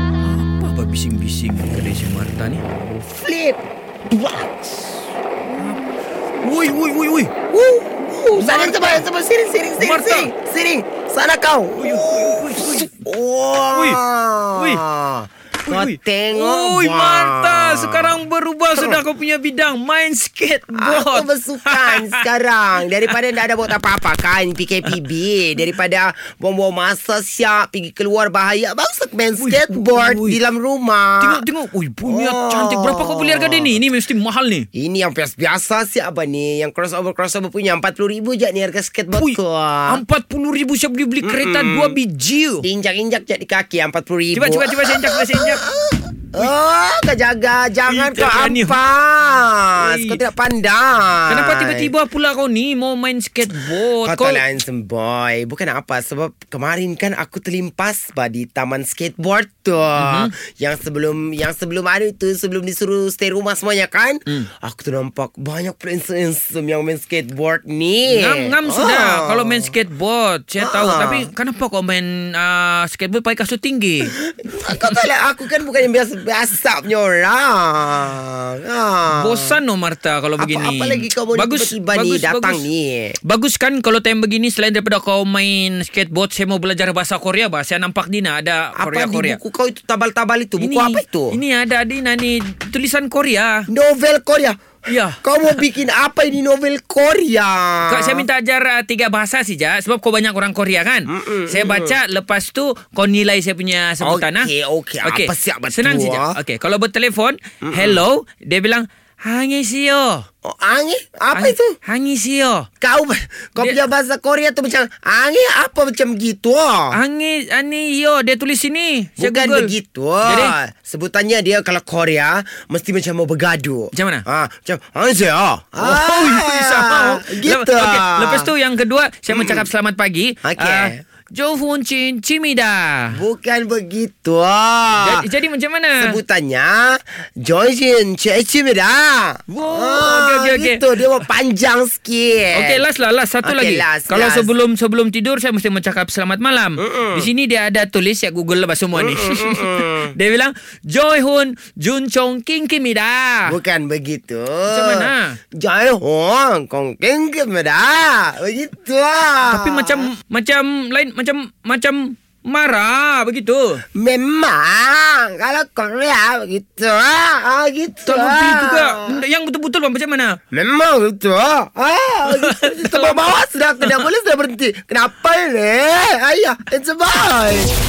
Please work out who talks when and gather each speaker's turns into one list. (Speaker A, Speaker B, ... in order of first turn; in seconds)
Speaker A: 0.2-2.6, 5.5-5.8, 6.4-7.3, 8.3-9.1, 9.8-10.3, 11.8-13.0, 13.7-14.0, 14.6-14.8, 15.7-22.2, 29.4-30.4, 31.2-34.7, 39.2-42.7, 44.3-45.6, 47.9-48.8, 49.8-50.2, 51.3-54.4, 60.0-60.3, 68.1-74.1, 74.7-75.0, 79.1-82.7, 83.2-89.4, 90.6-93.7, 94.9-95.6, 97.9-104.5, 105.0-110.2, 111.3-112.7, 116.9-120.5, 123.9-124.2, 125.8-133.2, 135.0-136.2, 139.5-140.8, 142.5-153.6, 154.7-155.4, 159.4-163.8, 168.1-170.4, 172.3-173.3, 173.8-174.1
Speaker B: 2.9-4.6, 7.5-18.2, 18.8-19.0, 20.7-31.4, 32.0-33.8, 34.7-40.0, 41.2-42.0, 42.6-51.9, 54.0-69.7, 70.6-71.3, 74.0-79.6, 80.4-83.2, 88.8-91.4, 93.7-94.6, 95.1-98.2, 101.1-102.0, 104.0-106.4, 107.6-108.0, 110.4-111.8, 112.8-117.0, 119.2-128.5, 129.3-129.7, 130.4-131.0, 133.1-135.2, 136.0-142.8, 143.4-144.5, 146.8-147.3, 148.9-150.1, 153.5-160.1, 163.9-169.2, 170.5-177.7